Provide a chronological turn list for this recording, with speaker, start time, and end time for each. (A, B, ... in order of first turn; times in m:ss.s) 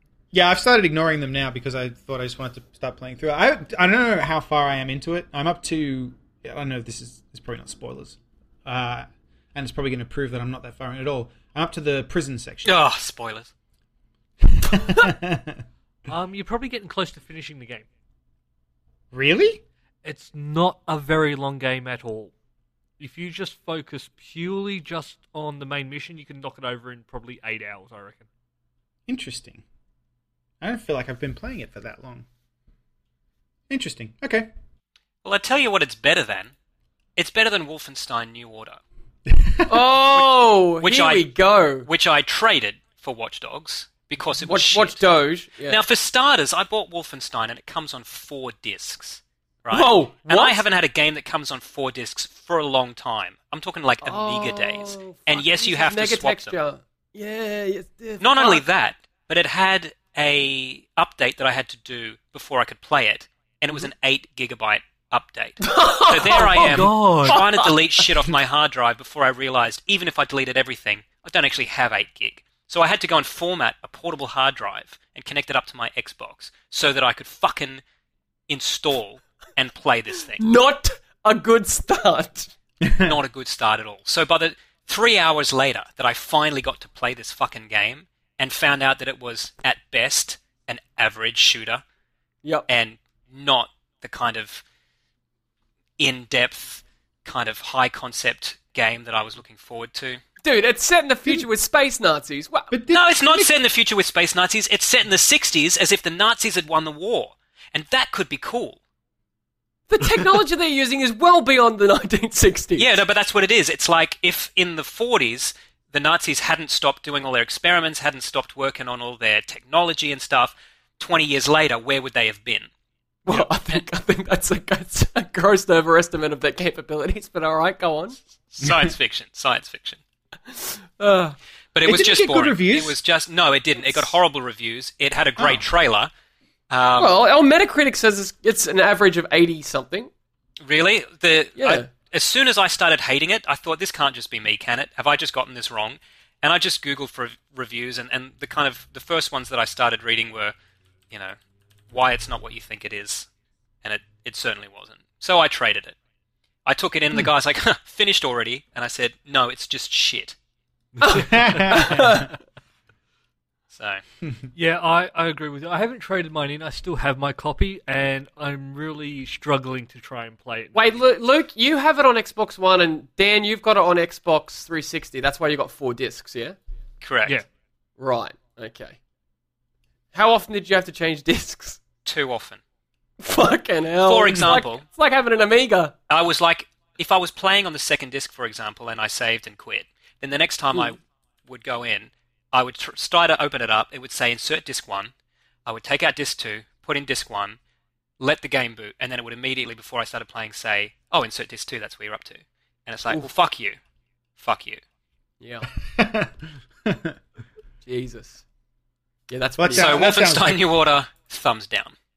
0:00.3-0:12.7 A
0:12.6-0:13.5 B
0:14.5-0:15.6 A
0:16.1-0:17.9 C
0:19.1-0:19.6 A
0:20.0-0:22.3 C
0:23.0-0:28.2 C
0:29.1-0:29.6 A
0:30.6-0:32.2 A
0:33.7-0:34.5 A
0:35.2-0:36.5 B
0:37.2-0:38.8 B
0:39.3-0:39.8 A
0:39.7-0:41.9 D
0:40.2-0:41.3 B
0:41.8-0:45.0 B
0:44.4-0:45.8 D
0:45.7-0:56.5 B
0:49.7-0:50.6 D
0:54.0-0:58.6 D
0:58.2-1:17.8 B
1:05.6-1:08.0 D
1:06.6-1:07.4 C
1:18.5-1:20.4 B
1:20.4-1:22.5 D
1:22.8-1:23.2 A
1:23.0-1:31.8 B
1:32.7-1:34.6 B
1:36.0-1:40.2 B
1:40.4-1:42.7 D
1:42.7-1:43.5 A
1:42.9-1:48.8 B
1:49.9-1:53.0 D
1:52.8-2:02.7 B
2:03.2-2:08.2 D
2:08.5-2:10.0 B
2:08.6-2:08.9 A
2:10.5-2:11.4 D
2:11.7-2:16.1 B
2:11.8-2:13.0 A
2:15.4-2:15.6 A
2:16.7-2:17.2 B
2:17.0-2:20.1 D
2:20.6-2:30.5 B
2:21.6-2:21.9 D
2:31.1-2:31.4 B
2:31.9-2:33.3 B
2:33.8-2:36.0 B
2:36.6-2:40.4 B
2:41.0-2:41.2 C
2:41.0-2:42.4 D
2:41.2-2:42.3 A
2:43.7-2:44.0 B
2:44.5-2:50.7 C
2:50.7-2:56.6 D
2:57.0-2:57.4 B
2:58.0-2:59.0 D
3:00.1-3:01.8 D
3:02.0-3:02.6 B
3:03.2-3:05.9 D
3:04.0-3:04.8 B
3:06.1-3:15.1 B
3:15.6-3:17.6 B
3:18.2-3:23.8 B
3:24.4-3:24.8 B
3:25.4-3:25.7 D
3:25.8-3:27.2 A
3:27.8-3:28.4 D
3:29.3-3:30.1 D
3:29.6-3:30.6 A
3:29.7-3:31.9 B